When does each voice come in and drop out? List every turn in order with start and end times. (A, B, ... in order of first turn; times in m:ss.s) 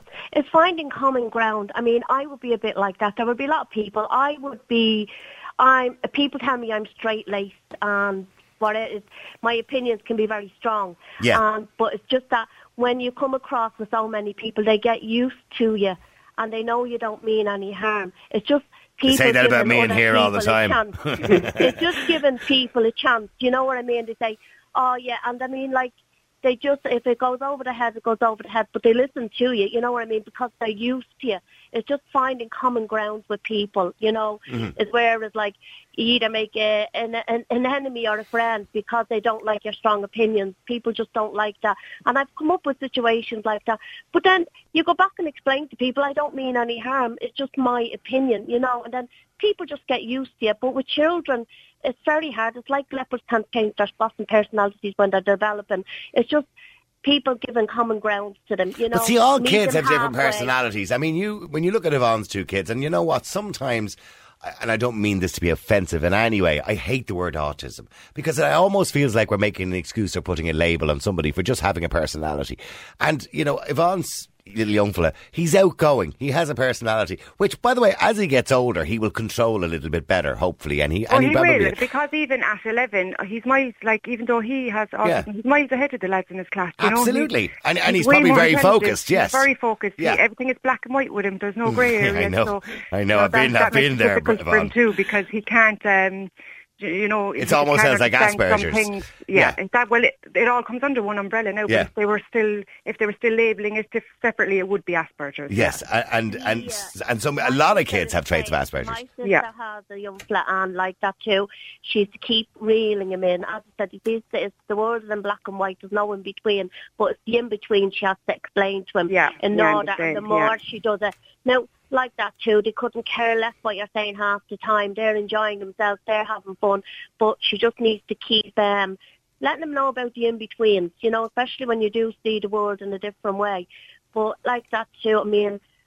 0:00.3-0:56.4 A
0:19.0-0:21.8 B
0:57.0-1:00.5 A
0:58.9-1:21.8 B
1:21.1-1:27.3 C
1:26.8-1:29.5 B
1:27.8-1:45.8 C
1:31.6-1:34.7 B
1:37.4-1:39.6 B
1:45.5-1:49.0 B
1:46.3-2:15.6 A
1:59.1-2:00.5 C